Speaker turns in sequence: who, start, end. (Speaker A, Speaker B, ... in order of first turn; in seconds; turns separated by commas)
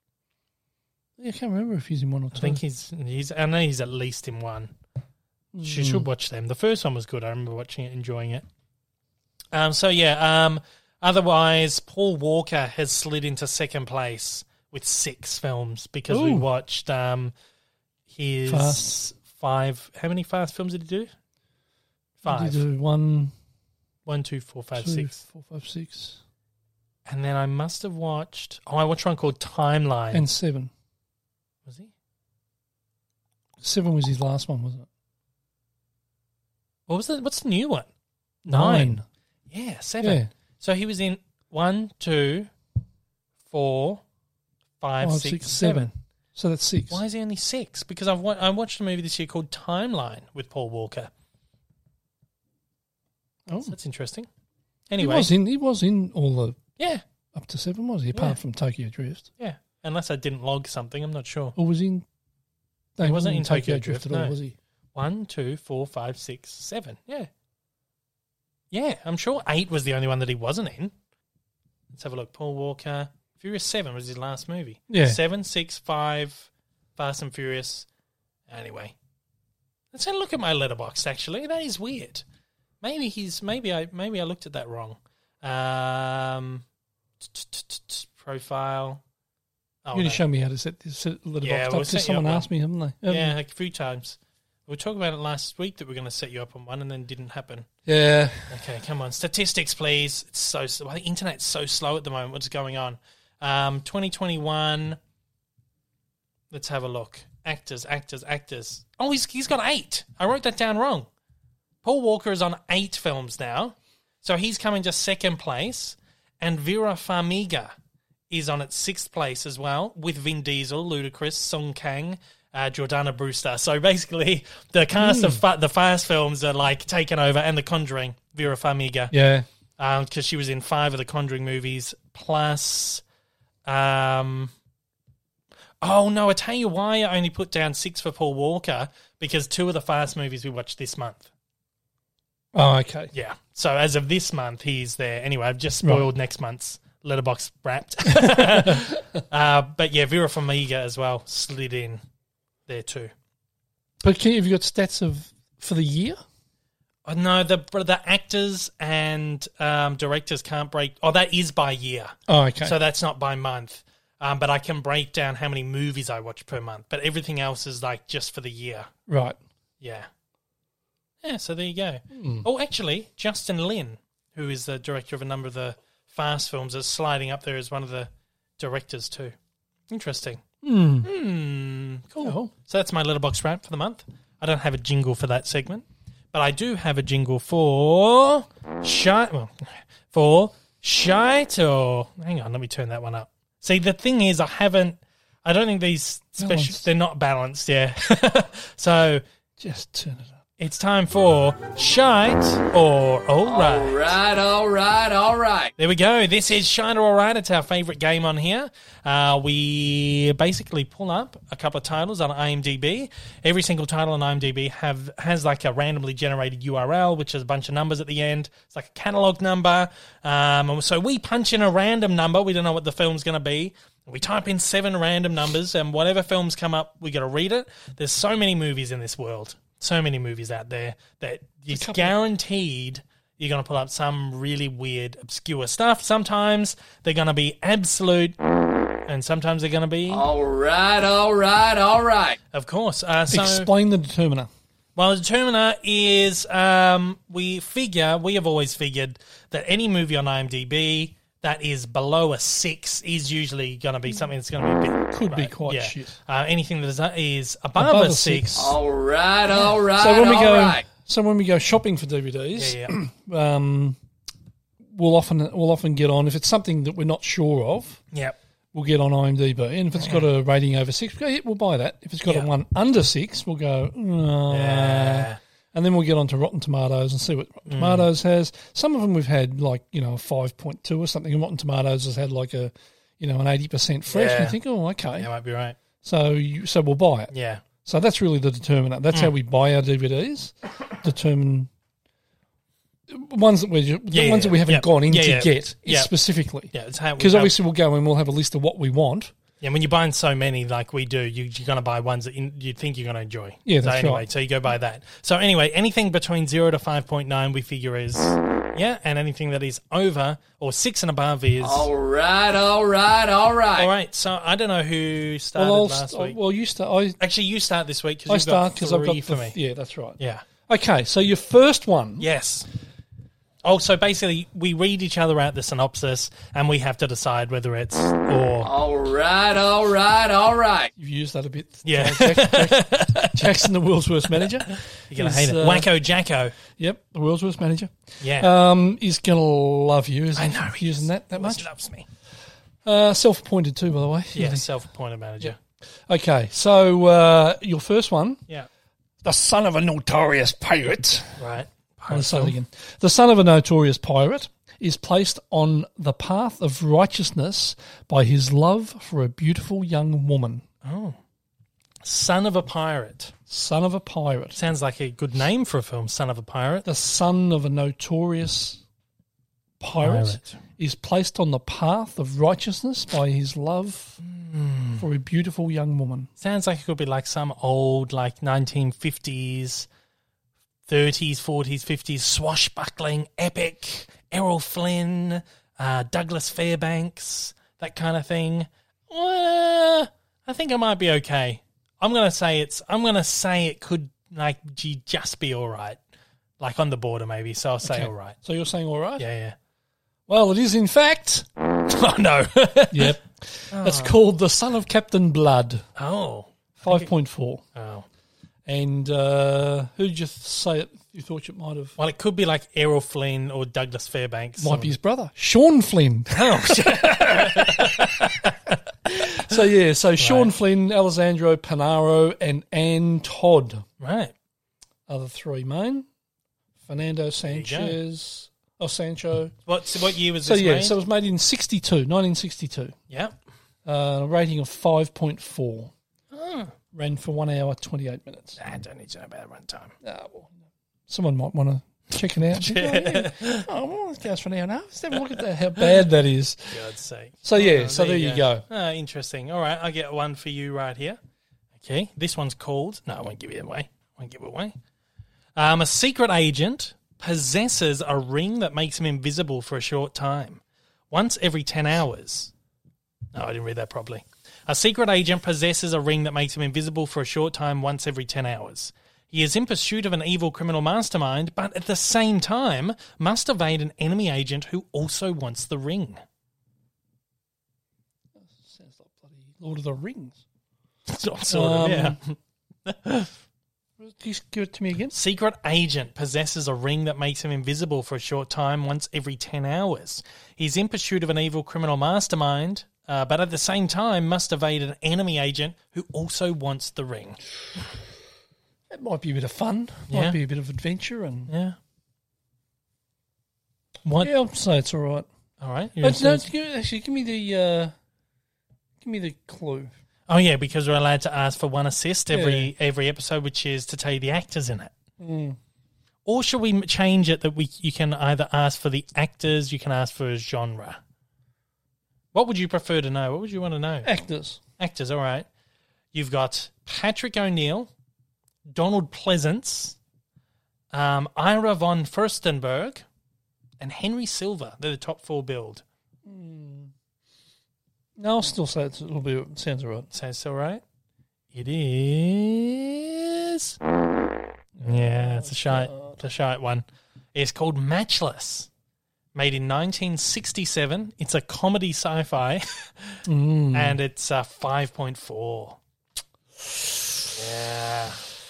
Speaker A: 1.2-2.6, Speaker B: 2.3-4.7, Speaker A: 5.5-6.1, Speaker B: 5.6-8.4, Speaker B: 9.5-17.3, Speaker A: 16.1-16.5, Speaker B: 18.1-21.1, Speaker A: 18.5-19.0, Speaker B: 22.2-22.6, Speaker A: 22.2-23.3, Speaker B: 24.1-25.2, Speaker A: 24.8-26.2, Speaker B: 27.1-30.2, Speaker A: 30.1-30.7, Speaker B: 31.7-31.9, Speaker A: 33.6-34.9, Speaker B: 36.9-37.9, Speaker B: 38.5-42.5, Speaker A: 38.5-39.0, Speaker A: 40.0-40.3, Speaker B: 43.5-44.0, Speaker B: 44.8-45.9, Speaker A: 45.0-47.0, Speaker B: 46.9-51.1, Speaker A: 53.5-53.8, Speaker B: 53.6-54.3, Speaker B: 54.9-55.3, Speaker A: 55.0-56.6, Speaker B: 56.8-57.0, Speaker A: 57.3-59.3, Speaker B: 59.4-61.6, Speaker A: 61.6-62.0, Speaker A: 63.0-64.6, Speaker B: 63.0-64.4, Speaker B: 65.0-67.3, Speaker B: 68.7-70.9, Speaker B: 71.9-77.9, Speaker A: 74.9-75.2, Speaker B: 78.5-79.0, Speaker B: 79.9-82.2, Speaker B: 82.8-86.7, Speaker B: 87.2-89.0, Speaker B: 89.8-90.2, Speaker A: 89.9-93.3, Speaker B: 91.4-92.5, Speaker B: 93.1-97.7, Speaker A: 97.9-98.6, Speaker B: 98.5-105.0, Speaker B: 106.5-111.1, Speaker B: 111.8-117.7, Speaker B: 118.3-129.2, Speaker A: 125.0-125.4, Speaker A: 129.1-129.5, Speaker B: 129.8-133.0, Speaker B: 133.7-134.5, Speaker B: 135.8-141.3, Speaker A: 142.5-143.1, Speaker B: 143.1-152.0, Speaker A: 148.1-148.9, Speaker B: 152.7-153.1, Speaker A: 154.0-156.2, Speaker B: 157.1-168.9, Speaker A: 162.3-162.8, Speaker A: 169.1-169.4, Speaker B: 169.8-170.1, Speaker B: 171.2-179.3, Speaker A: 172.1-172.5, Speaker B: 179.9-180.4, Speaker A: 180.6-181.1, Speaker B: 181.0-199.2, Speaker A: 182.2-182.5, Speaker A: 196.4-196.9, Speaker A: 199.6-200.4, Speaker B: 200.6-204.1, Speaker C: 203.4-205.7, Speaker B: 205.8-238.4, Speaker A: 231.7-232.2, Speaker B: 239.1-240.2, Speaker C: 240.1-242.4, Speaker B: 242.5-243.7, Speaker A: 243.3-244.5, Speaker B: 245.0-258.7, Speaker A: 255.1-256.2, Speaker A: 257.8-258.8, Speaker C: 258.6-260.8, Speaker A: 260.0-264.0, Speaker B: 262.6-262.9, Speaker A: 264.9-268.0, Speaker A: 268.7-285.3, Speaker B: 270.0-270.2, Speaker B: 274.5-275.4, Speaker B: 277.7-278.1, Speaker B: 284.1-284.6, Speaker B: 285.2-285.8, Speaker A: 286.0-287.3, Speaker B: 287.3-287.6, Speaker A: 287.8-291.7, Speaker A: 293.1-299.3, Speaker B: 294.1-296.1, Speaker B: 296.7-297.6, Speaker B: 299.6-311.9, Speaker A: 303.7-304.3, Speaker C: 311.6-313.9, Speaker B: 313.8-316.4, Speaker A: 315.6-317.2, Speaker B: 317.2-319.6, Speaker A: 318.3-322.3, Speaker B: 320.2-320.4, Speaker B: 322.2-322.7, Speaker B: 323.6-328.7, Speaker C: 328.6-330.9, Speaker A: 331.0-335.9, Speaker B: 331.9-333.7, Speaker B: 334.4-336.6, Speaker A: 336.7-341.7, Speaker B: 338.2-338.5, Speaker B: 340.4-342.1, Speaker A: 342.9-344.7, Speaker B: 344.4-345.6, Speaker A: 346.1-348.4, Speaker A: 349.2-351.4, Speaker B: 351.4-352.6, Speaker A: 352.1-360.6, Speaker B: 360.8-361.2, Speaker B: 362.0-363.3, Speaker A: 363.5-364.6, Speaker B: 364.5-366.9, Speaker A: 366.9-368.8, Speaker A: 369.8-374.2, Speaker B: 370.0-370.6, Speaker B: 374.2-375.1, Speaker A: 375.0-376.3, Speaker B: 376.4-379.9, Speaker B: 380.9-396.0, Speaker B: 396.6-398.4, Speaker A: 397.8-399.2, Speaker B: 399.2-399.6, Speaker A: 400.3-401.5, Speaker B: 401.9-403.2, Speaker A: 402.9-405.8, Speaker B: 403.7-404.2, Speaker B: 406.0-407.1, Speaker A: 406.8-407.6, Speaker B: 407.8-408.1, Speaker A: 408.7-411.9, Speaker B: 412.0-414.9, Speaker A: 414.6-418.1, Speaker B: 416.3-418.5, Speaker A: 419.1-423.8, Speaker B: 420.2-420.5, Speaker B: 424.0-424.3, Speaker A: 425.1-426.1, Speaker A: 426.8-429.5, Speaker B: 427.5-428.0, Speaker B: 429.7-431.0, Speaker A: 430.4-433.0, Speaker B: 433.1-433.4, Speaker A: 433.9-435.9, Speaker B: 436.3-436.7, Speaker A: 436.9-438.6, Speaker B: 438.6-439.9, Speaker A: 440.0-440.5, Speaker A: 441.1-446.9, Speaker B: 442.5-443.7, Speaker B: 446.7-451.2, Speaker A: 447.4-448.6, Speaker B: 451.8-454.8, Speaker B: 455.6-462.5, Speaker B: 463.3-476.2, Speaker A: 478.4-480.4, Speaker B: 481.1-483.3, Speaker A: 481.5-482.2, Speaker A: 484.0-485.1, Speaker B: 485.1-497.4, Speaker A: 498.9-501.5, Speaker B: 500.1-500.4, Speaker B: 501.5-501.8, Speaker B: 504.1-504.3, Speaker A: 504.2-505.3, Speaker B: 505.6-506.5, Speaker A: 506.0-507.9, Speaker A: 509.0-509.9, Speaker B: 510.3-514.9, Speaker A: 512.3-512.7, Speaker A: 515.2-515.6, Speaker B: 516.3-521.0, Speaker B: 522.3-524.1, Speaker A: 524.0-524.6, Speaker B: 524.8-525.5, Speaker B: 526.1-527.9, Speaker B: 528.7-530.0, Speaker B: 530.9-533.0, Speaker B: 533.8-535.8, Speaker A: 536.2-536.9, Speaker A: 538.2-540.1, Speaker B: 540.1-540.8, Speaker B: 541.5-543.8, Speaker A: 544.8-546.2, Speaker B: 544.8-548.7, Speaker B: 549.4-553.2, Speaker A: 553.3-554.0, Speaker B: 553.7-555.8, Speaker B: 557.3-558.3